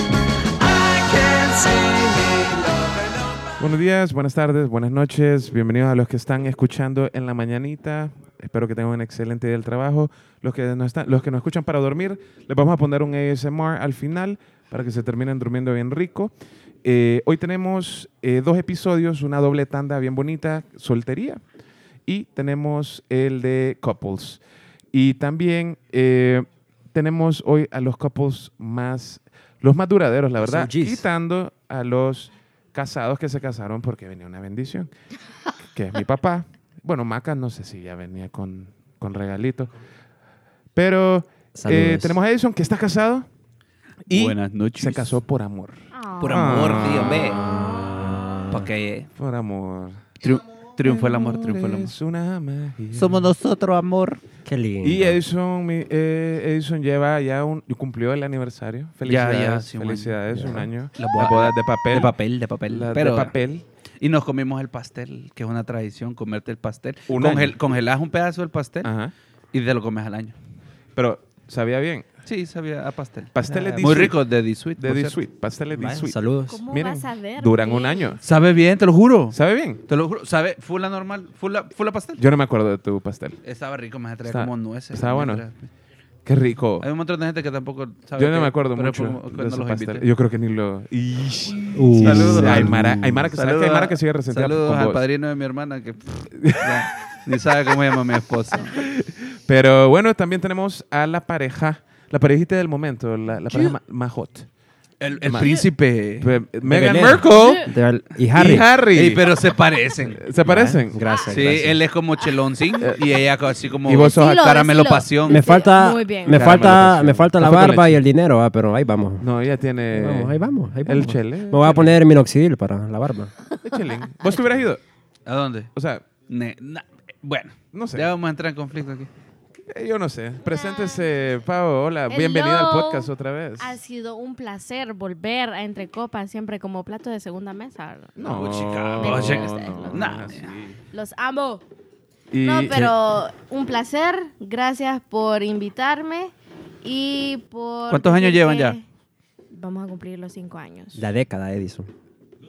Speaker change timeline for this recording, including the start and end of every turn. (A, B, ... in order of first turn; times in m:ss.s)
0:00.6-0:03.6 A
0:03.6-0:16.3 B
0:16.8-0:21.4 B
0:22.1-0:24.4 B
0:24.9-0:34.9 B
0:30.4-0:31.0 C
0:35.7-0:39.7 B
0:40.7-0:43.3 B
0:41.5-0:42.2 C
0:44.1-0:48.2 B
0:44.1-0:45.2 D
0:45.9-0:46.7 E
0:46.2-0:47.4 D
0:47.7-0:48.4 C
0:48.5-0:49.1 D
0:49.2-0:50.1 B
0:50.2-0:51.9 D
0:50.8-0:53.3 B
0:52.9-0:54.2 D
0:54.4-0:55.2 C
0:54.8-1:02.1 B
0:59.0-1:00.2 D
1:00.3-1:00.7 C
1:01.0-1:03.3 D
1:02.7-1:03.6 B
1:04.0-1:08.9 D
1:07.1-1:07.5 B
1:08.8-1:09.1 B
1:09.5-1:10.3 D
1:11.0-1:12.1 B
1:12.2-1:15.2 D
1:13.3-1:14.2 B
1:13.5-1:13.8 C
1:14.8-1:16.2 B
1:15.7-1:16.6 C
1:16.5-1:18.1 E
1:16.7-1:18.2 B
1:18.2-1:22.2 D
1:19.3-1:19.8 B
1:22.2-1:23.4 B
1:23.4-1:25.7 D
1:24.2-1:25.4 B
1:26.2-1:26.8 B
1:26.8-1:30.0 D
1:28.2-1:35.0 B
1:31.7-1:33.3 C
1:32.0-1:38.8 D
1:36.3-1:36.9 B
1:38.7-1:44.5 B
1:45.0-1:46.4 D
1:45.2-1:45.7 B
1:45.4-1:45.6 E
1:46.2-1:47.7 B
1:46.6-1:48.7 C
1:47.3-1:47.6 E
1:48.3-1:49.2 B
1:48.9-1:50.2 D
1:50.2-1:51.0 B
1:50.4-1:51.8 C
1:51.0-1:51.3 E
1:51.3-1:55.4 D
1:53.8-1:54.4 B
1:54.0-1:56.6 E
1:55.3-1:59.2 C
1:56.3-1:58.0 B
1:59.2-2:01.9 B
1:59.9-2:03.3 C
2:03.6-2:04.8 B
2:05.2-2:05.7 D
2:05.7-2:06.0 B
2:06.3-2:09.1 D
2:07.7-2:08.1 B
2:09.7-2:13.7 B
2:10.5-2:11.1 E
2:12.1-2:13.1 E
2:13.6-2:18.4 E
2:18.2-2:20.8 B
2:18.2-2:20.6 D
2:19.0-2:20.1 E
2:20.9-2:21.6 E
2:22.3-2:22.8 B
2:22.4-2:26.3 E
2:26.8-2:28.8 E
2:27.9-2:28.8 D
2:29.5-2:31.0 E
2:30.9-2:31.9 C